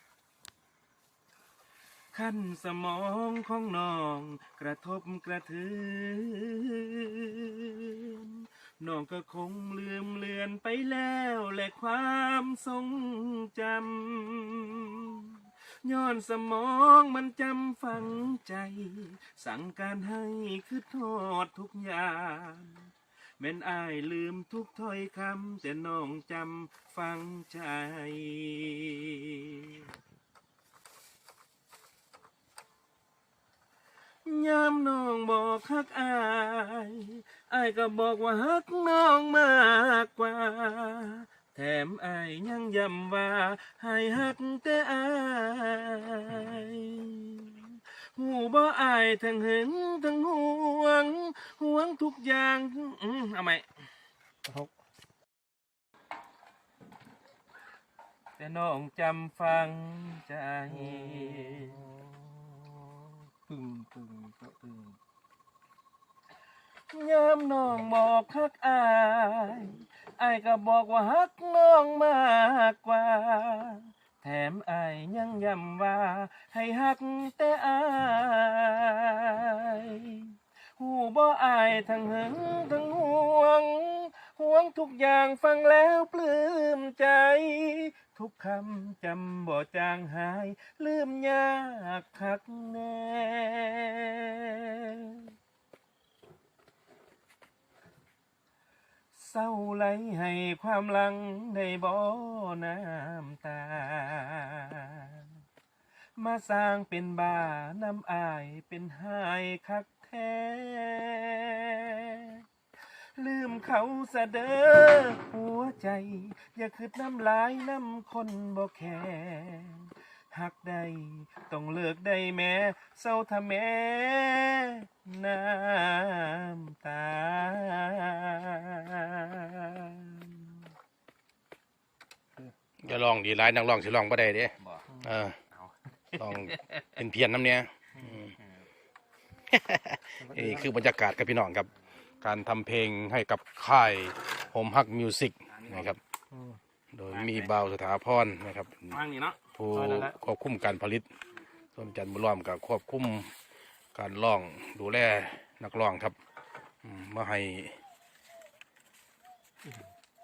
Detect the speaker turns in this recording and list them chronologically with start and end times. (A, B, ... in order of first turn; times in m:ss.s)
0:02.1-0:29.8 A
0:34.2-0:53.7 A
0:58.4-1:01.8 A
1:01.1-1:01.7 B
1:03.5-1:04.9 B
1:06.9-1:35.3 A
1:39.2-1:45.3 A
1:46.2-1:52.4 A
1:53.2-2:10.4 A
2:12.8-2:15.4 C
2:16.2-2:18.3 C
2:19.5-2:21.7 C
2:20.3-2:20.5 B
2:22.2-2:26.0 C
2:26.9-2:29.0 C
2:28.9-2:30.1 A
2:29.6-2:31.1 C
2:31.8-2:33.3 C
2:34.0-2:36.1 C
2:36.8-2:37.8 C